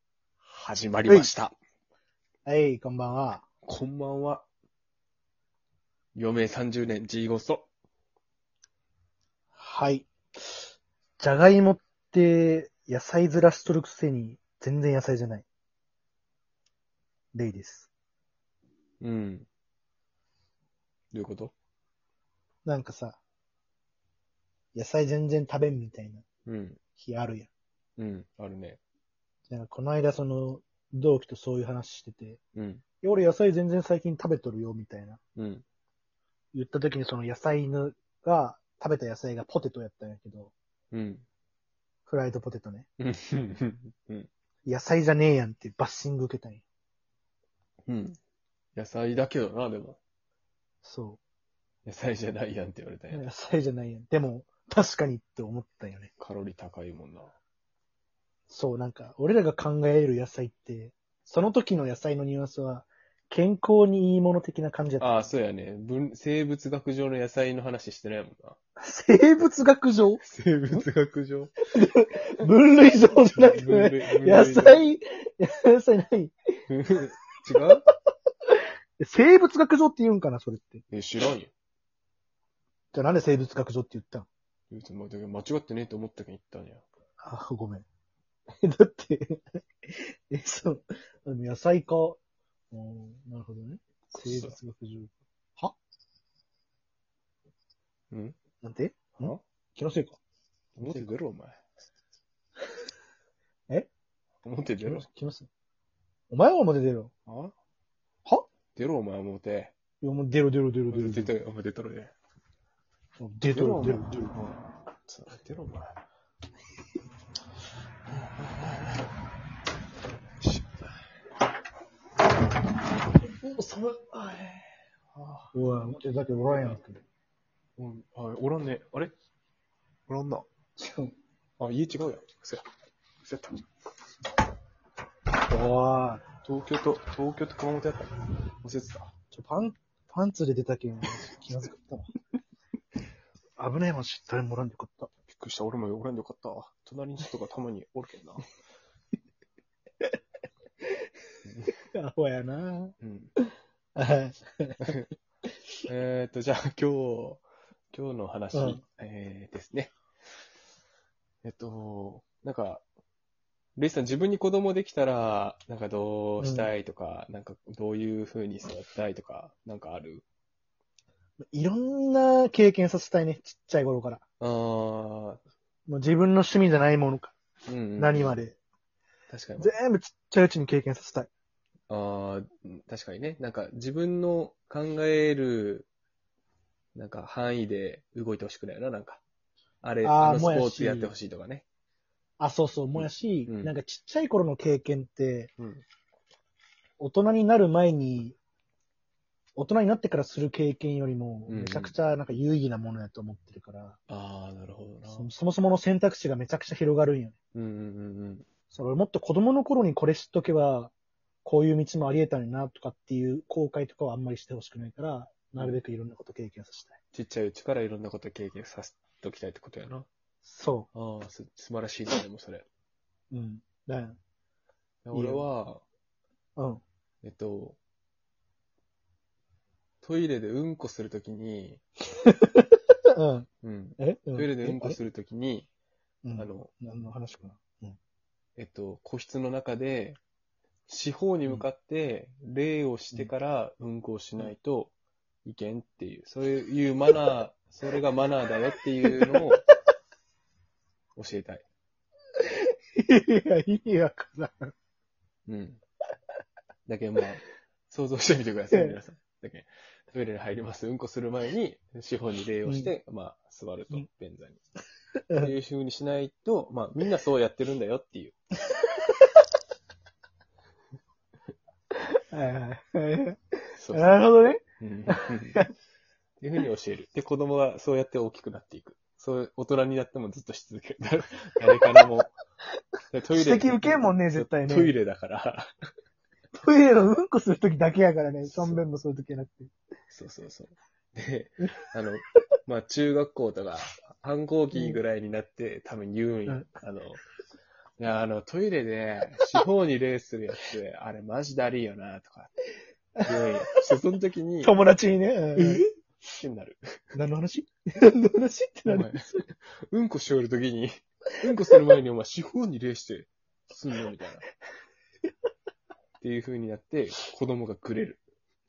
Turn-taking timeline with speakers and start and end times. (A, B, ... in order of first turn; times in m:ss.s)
0:00.5-0:01.6 A
0:01.1-0:01.3 B
0:02.5-0:03.4 B
0:03.7-0:04.5 A
0:06.2-0:07.7 A
0:09.6-0:10.6 B
0:11.2-0:15.5 B
0:17.3-0:17.9 B
0:19.0-0:19.5 A
0:21.1-0:21.5 A
0:22.6-0:23.2 B
0:24.7-0:26.2 B
0:26.5-0:26.8 A
0:27.0-0:27.5 B
0:28.0-0:28.8 A
0:29.5-0:32.4 B
0:32.6-0:32.8 A
0:33.0-0:35.2 B
0:35.4-0:35.6 A
0:36.5-0:40.5 B
0:40.9-0:41.3 A
0:42.1-0:42.9 B
0:43.0-0:44.3 A
0:44.7-0:46.6 B
0:47.9-0:48.2 A
0:48.8-0:50.0 A
0:50.8-0:51.2 B
0:51.9-0:53.2 A
0:53.1-0:56.1 B
0:56.2-0:57.4 A
0:58.5-1:05.2 B
1:05.0-1:08.6 A
1:08.8-1:10.9 B
1:10.2-1:11.5 A
1:11.7-1:16.3 B
1:13.3-1:14.9 A
1:16.7-1:17.8 A
1:19.0-1:20.8 B
1:20.9-1:21.5 A
1:22.9-1:24.3 B
1:24.7-1:26.8 A
1:27.2-1:27.9 B
1:28.6-1:32.2 B
1:32.7-1:35.8 B
1:34.2-1:34.6 A
1:38.6-1:40.2 B
1:40.8-1:41.6 A
1:40.8-1:41.1 B
1:44.4-1:45.1 A
1:44.8-1:45.5 B
1:46.3-1:47.1 B
1:47.3-1:47.5 A
1:48.8-1:49.8 A
1:50.0-1:51.3 B
1:50.9-1:52.1 A
1:53.2-1:54.6 B
1:53.5-1:54.4 A
1:55.1-1:56.0 A
1:58.4-1:59.1 A
2:00.4-2:00.9 A
2:03.1-2:05.6 A
2:05.5-2:07.0 B
2:06.5-2:06.8 A
2:07.8-2:09.1 A
2:10.1-2:10.5 A
2:10.8-2:11.1 B
2:11.6-2:12.6 A
2:13.2-2:13.6 A
2:15.5-2:16.2 B
2:16.4-2:19.1 A
2:19.3-2:22.1 B
2:23.6-2:25.1 B
2:25.3-2:28.5 A
2:31.4-2:31.7 A
2:31.9-2:33.0 B
2:33.0-2:33.3 A
2:34.0-2:35.0 B
2:34.8-2:35.1 A
2:35.9-2:40.0 A
2:38.5-2:38.8 B
2:41.4-2:42.8 A
2:43.8-2:50.2 A
2:46.4-2:46.7 B
2:51.5-2:54.2 B
2:54.4-2:55.4 A
2:55.9-2:57.4 B
2:57.7-2:58.4 A
2:58.0-2:58.6 B
2:59.3-2:59.7 A
2:59.6-3:01.3 B
3:01.9-3:05.9 A
3:07.0-3:09.2 A
3:09.8-3:11.6 A
3:10.0-3:11.1 B
3:12.4-3:15.5 B
3:12.9-3:13.7 A
3:15.6-3:15.8 A
3:17.0-3:18.4 B
3:19.6-3:24.0 B
3:21.5-3:22.0 A
3:24.1-3:25.3 A
3:25.1-3:27.4 B
3:27.5-3:28.5 A
3:28.7-3:30.9 B
3:31.4-3:37.0 B
3:37.1-3:40.1 A
3:40.4-3:40.9 B
3:40.9-3:42.7 A
3:43.3-3:44.2 B
3:45.0-3:45.8 A
3:45.1-3:45.5 B
3:46.6-3:46.8 B
3:47.2-3:47.8 A
3:50.0-3:51.8 A
3:52.2-3:53.5 B
3:53.6-3:55.7 A
3:54.0-3:55.0 B
3:56.2-3:58.0 B
3:56.4-3:56.7 A
3:58.6-4:00.2 A
4:00.9-4:04.9 A
4:05.4-4:09.6 A
4:11.2-4:11.6 A
4:13.0-4:14.7 B
4:15.5-4:15.8 A
4:16.9-4:24.6 A
4:18.7-4:19.0 B
4:22.7-4:22.9 B
4:25.4-4:28.4 A
4:28.8-4:29.3 B
4:32.3-4:35.7 B
4:33.8-4:34.1 A
4:34.8-4:35.6 A
4:36.4-4:42.3 A
4:43.1-4:45.7 A
4:43.3-4:45.0 B
4:46.5-4:49.7 B
4:48.4-4:48.8 A
4:50.1-4:57.2 A
4:54.7-4:55.0 B
4:58.0-5:02.5 A
5:03.2-5:04.8 A
5:04.6-5:05.8 B
5:05.6-5:07.0 A
5:07.2-5:09.5 B
5:08.9-5:09.3 A
5:09.9-5:14.4 A
5:16.2-5:18.2 A